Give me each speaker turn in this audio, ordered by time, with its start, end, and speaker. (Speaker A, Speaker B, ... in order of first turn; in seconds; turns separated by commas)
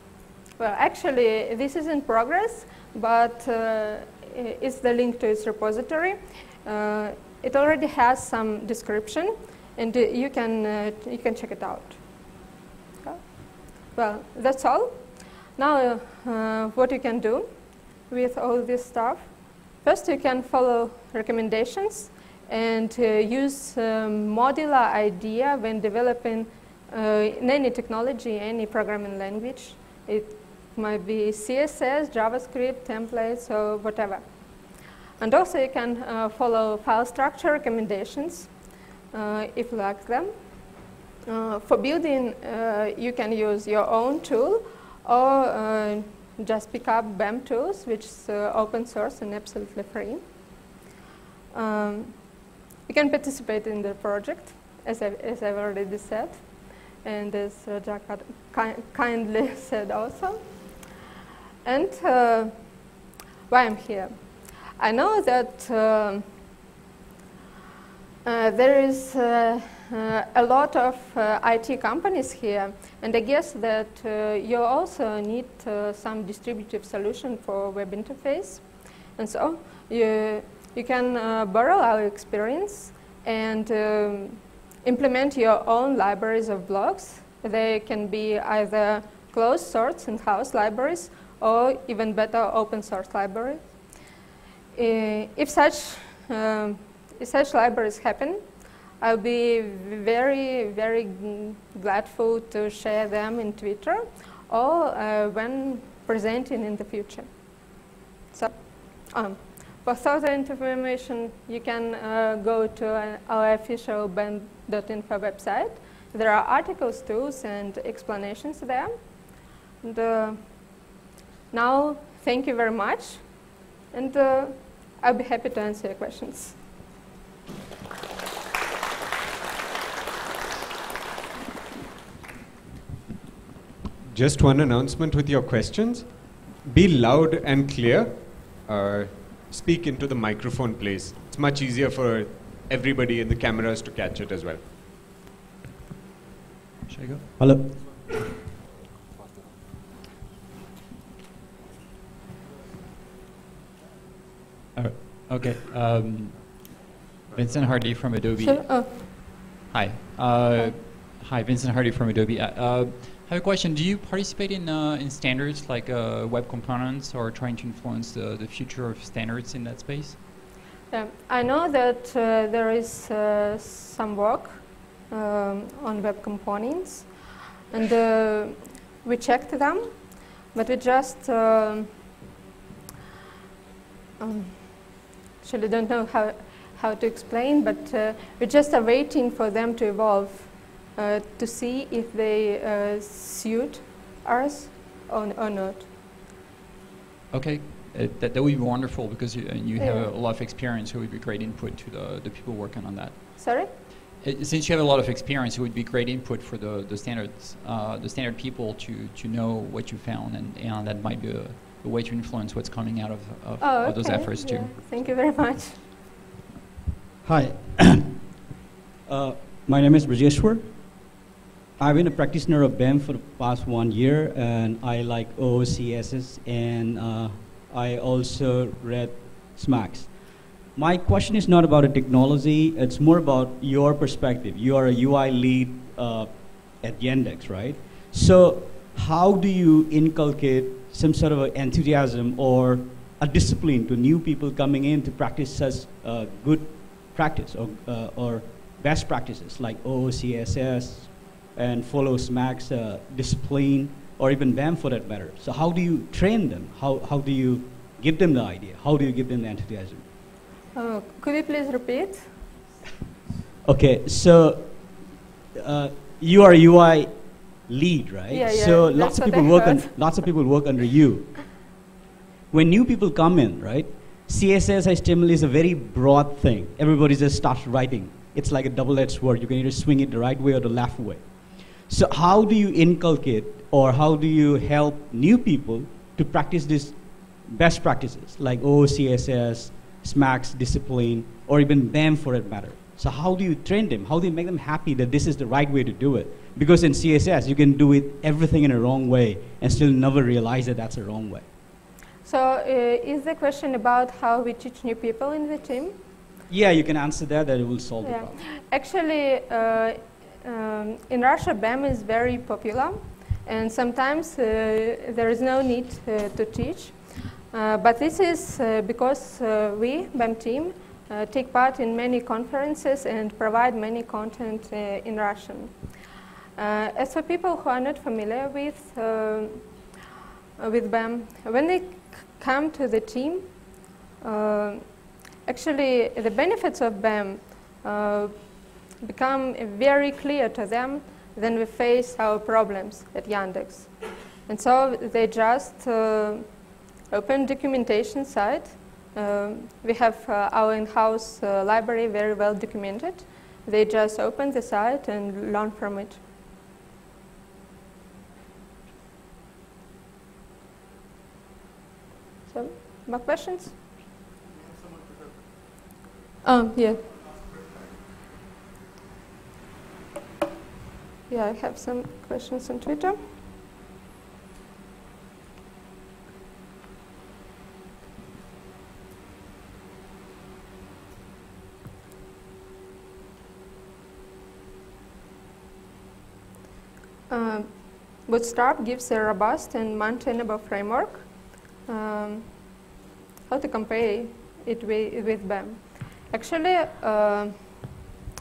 Speaker A: 0.6-12.0, Speaker A: 13.8-17.5, Speaker A: 18.1-19.3, Speaker A: 19.8-34.2, Speaker A: 35.2-38.5, Speaker A: 39.1-40.3, Speaker A: 41.2-50.2, Speaker A: 51.5-52.2, Speaker A: 52.9-56.5, Speaker A: 57.0-60.4, Speaker A: 61.6-62.5, Speaker A: 63.5-64.1, Speaker A: 64.8-66.2, Speaker A: 68.2-93.6, Speaker A: 94.7-98.4, Speaker A: 99.0-107.3, Speaker A: 108.3-118.9, Speaker A: 119.8-120.6, Speaker A: 121.5-126.6, Speaker B: 134.1-144.6, Speaker C: 146.9-147.3, Speaker D: 147.4-148.2, Speaker C: 154.7-170.2, Speaker A: 158.4-158.9, Speaker A: 170.9-177.1, Speaker A: 177.7-181.9, Speaker A: 184.2-195.9, Speaker C: 197.3-214.8, Speaker A: 199.8-200.1, Speaker A: 203.4-203.7, Speaker A: 213.6-215.8, Speaker D: 217.2-218.2, Speaker D: 219.1-221.1, Speaker D: 221.8-260.1, Speaker A: 260.7-262.3, Speaker D: 263.6-271.6, Speaker A: 268.3-270.1, Speaker D: 272.5-301.5, Speaker A: 302.2-305.9, Speaker D: 306.5-308.4, Speaker A: 308.0-325.7, Speaker A: 326.6-329.8, Speaker A: 330.6-333.6, Speaker A: 334.2-334.8, Speaker A: 335.4-343.9, Speaker A: 344.5-346.5, Speaker A: 347.1-356.2, Speaker A: 362.5-363.8, Speaker A: 366.4-367.0, Speaker A: 371.3-373.2, Speaker A: 387.3-392.8, Speaker A: 393.5-397.9